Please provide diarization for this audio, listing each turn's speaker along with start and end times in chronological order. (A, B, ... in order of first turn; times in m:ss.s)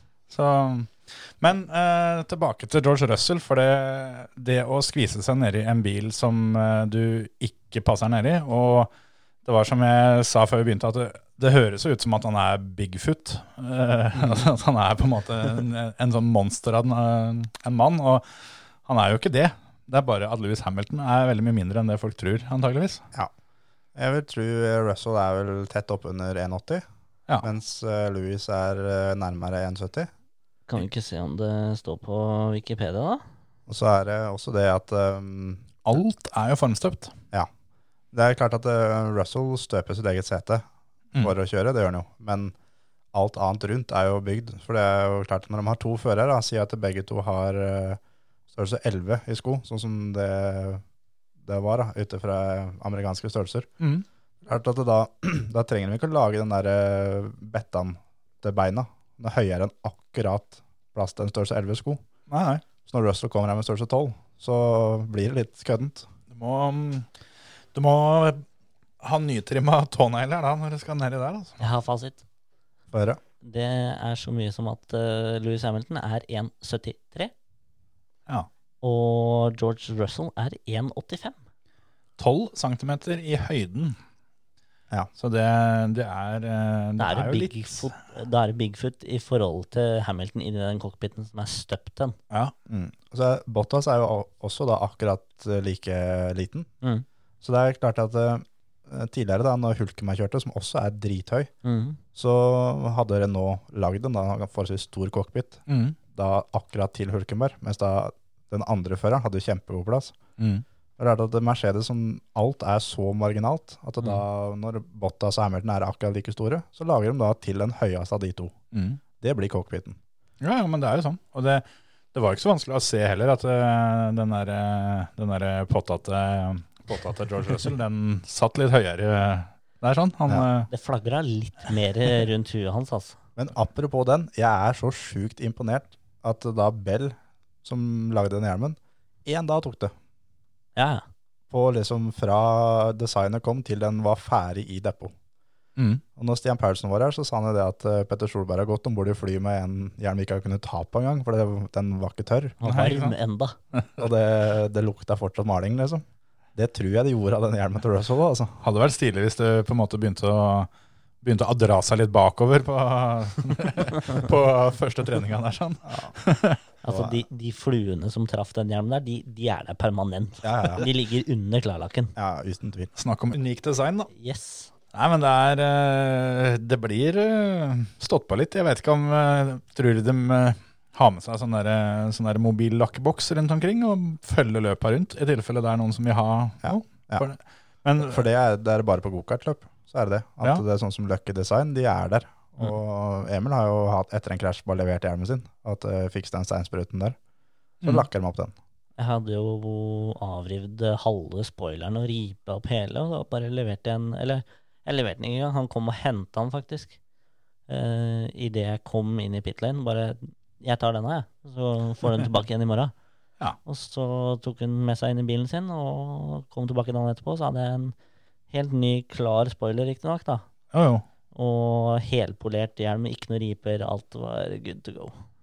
0:00.3-0:08.9 A
0:09.4-0:23.0 A
0:23.9-0:26.8 B
0:27.4-0:30.1 B
0:30.7-0:33.2 C
0:33.7-0:35.7 B
0:35.8-0:37.1 A
0:38.1-0:40.6 B
0:41.2-0:42.5 B
0:43.1-0:48.0 B
0:48.5-0:50.8 B
0:51.4-0:53.7 B
0:53.8-0:54.0 A
0:54.4-1:02.0 B
1:02.3-1:02.6 A
1:02.8-1:06.1 B
1:06.3-1:07.1 A
1:07.7-1:08.4 A
1:09.0-1:11.6 A
1:11.6-1:12.2 C
1:12.9-1:13.2 B
1:13.4-1:17.3 C
1:18.8-1:21.4 C
1:22.2-1:24.0 A
1:25.2-1:27.9 A
1:27.0-1:32.2 C
1:32.7-1:36.7 B
1:37.4-1:41.5 B
1:41.6-1:42.0 C
1:42.1-1:50.2 B
1:45.7-1:46.0 A
1:50.4-1:50.6 A
1:51.0-1:58.6 B
1:58.7-1:59.0 A
1:59.2-2:00.0 B
2:00.4-2:10.7 A
2:10.7-2:13.2 C
2:13.4-2:19.9 B
2:20.8-2:21.0 C
2:21.5-2:25.1 B
2:25.8-2:26.0 A
2:26.2-2:32.6 B
2:32.6-2:33.6 C
2:32.6-2:33.2 A
2:34.0-2:36.0 B
2:36.5-2:38.6 B
2:38.6-2:40.7 A
2:41.2-2:46.6 A
2:45.8-2:46.1 B
2:46.8-2:52.1 C
2:46.9-2:47.2 B
2:50.4-2:50.8 B
2:52.2-2:52.9 B
2:53.0-2:54.1 A
2:54.1-2:54.7 C
2:54.9-3:08.2 A
3:06.6-3:07.2 B
3:08.0-3:17.2 B
3:17.8-3:18.5 B
3:19.0-3:27.0 C
3:27.7-3:32.9 C
3:33.6-3:37.9 C
3:38.5-3:40.4 C
3:40.7-3:41.0 A
3:41.3-3:45.2 C